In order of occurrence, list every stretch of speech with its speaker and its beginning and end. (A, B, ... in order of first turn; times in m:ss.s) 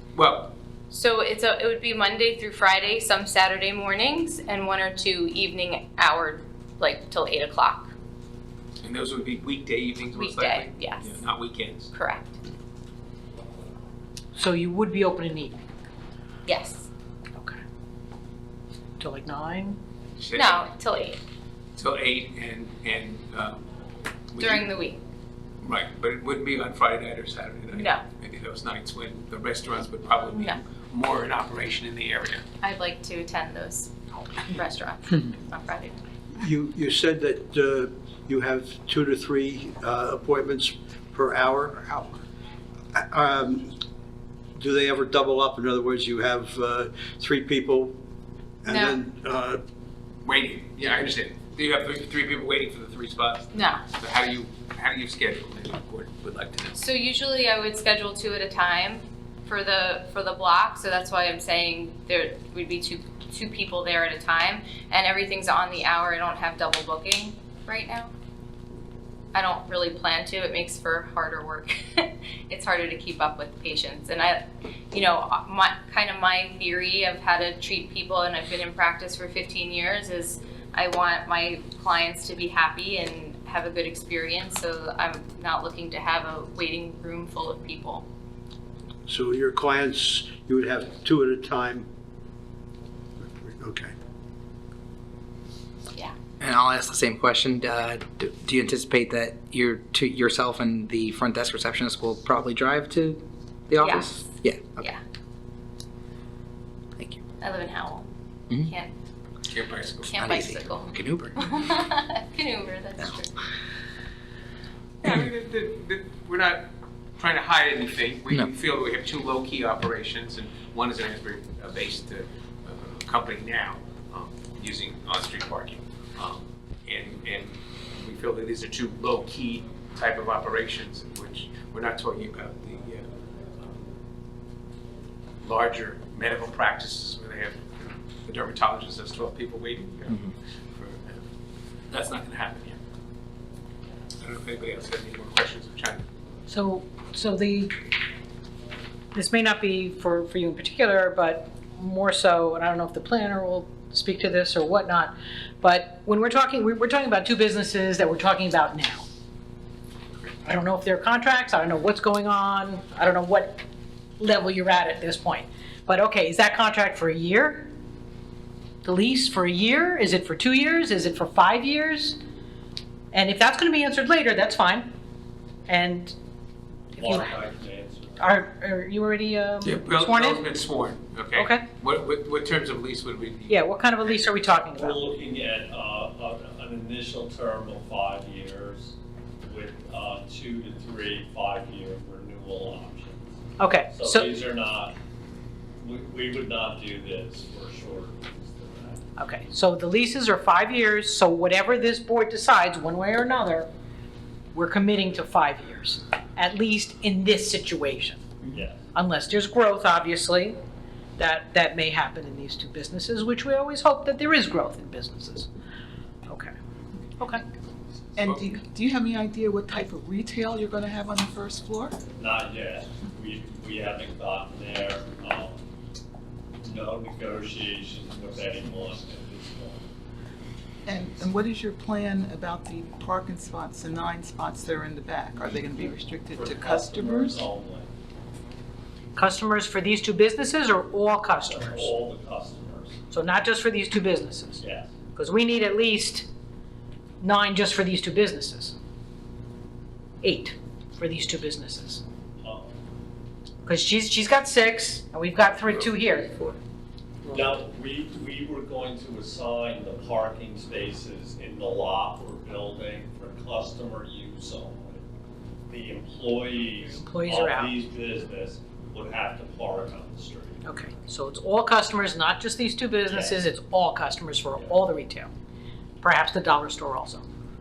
0:00.1-0:00.5 A
0:00.9-0:07.9 B
0:08.8-0:11.9 A
0:10.1-0:11.2 B
0:11.9-0:12.4 B
0:14.4-0:15.6 C
0:16.5-0:16.9 B
0:19.0-0:19.8 C
0:20.2-0:20.7 A
0:20.3-0:21.2 B
0:21.8-0:23.6 A
0:24.3-0:24.7 A
0:24.4-0:25.0 B
0:25.6-0:32.5 A
0:27.7-0:28.0 B
0:30.3-0:30.6 B
0:32.6-0:33.9 B
0:34.4-0:36.0 B
0:36.3-0:42.2 D
0:42.9-0:43.7 D
0:44.6-0:48.0 D
0:48.6-0:49.6 D
0:48.7-0:49.0 B
0:50.2-0:56.8 A
0:53.5-0:53.8 B
0:56.8-1:08.1 B
1:09.3-1:28.0 B
1:29.1-1:31.9 D
1:33.2-1:33.9 D
1:36.4-1:44.9 E
1:43.8-1:44.3 B
1:47.4-1:48.9 B
1:49.5-1:50.2 A
1:50.1-1:53.3 B
1:50.2-1:51.5 E
1:55.0-2:13.1 A
2:15.4-2:21.2 A
2:21.9-2:22.8 A
2:24.2-2:26.0 A
2:26.5-2:27.8 C
2:29.1-2:39.1 C
2:40.4-2:43.6 C
2:44.2-2:47.7 C
2:48.8-2:52.2 C
2:53.1-2:54.9 C
2:55.7-2:56.2 C
2:56.9-2:57.4 C
2:56.9-2:58.4 F
2:58.2-3:00.4 C
2:59.6-3:03.7 A
3:01.3-3:01.7 C
3:03.5-3:05.0 C
3:04.1-3:13.3 F
3:13.6-3:14.4 C
3:13.9-3:15.0 F
3:15.8-3:19.0 F
3:19.2-3:23.7 C
3:24.5-3:28.2 C
3:28.5-3:28.8 F
3:28.9-3:30.6 C
3:31.2-3:35.5 C
3:36.3-3:36.5 C
3:38.2-3:42.0 G
3:38.2-3:38.5 A
3:42.1-3:45.6 F
3:46.6-3:49.9 F
3:50.9-3:57.4 G
3:55.5-3:57.9 F
3:59.2-4:01.9 C
4:01.4-4:03.0 F
4:03.1-4:06.3 C
4:04.6-4:05.0 F
4:07.2-4:08.8 C
4:10.2-4:12.0 C
4:12.4-4:12.7 F
4:13.6-4:16.5 C
4:17.3-4:25.0 F
4:25.7-4:30.6 F
4:26.9-4:27.8 C
4:30.6-4:35.3 C
4:33.1-4:33.4 F
4:36.0-4:37.2 C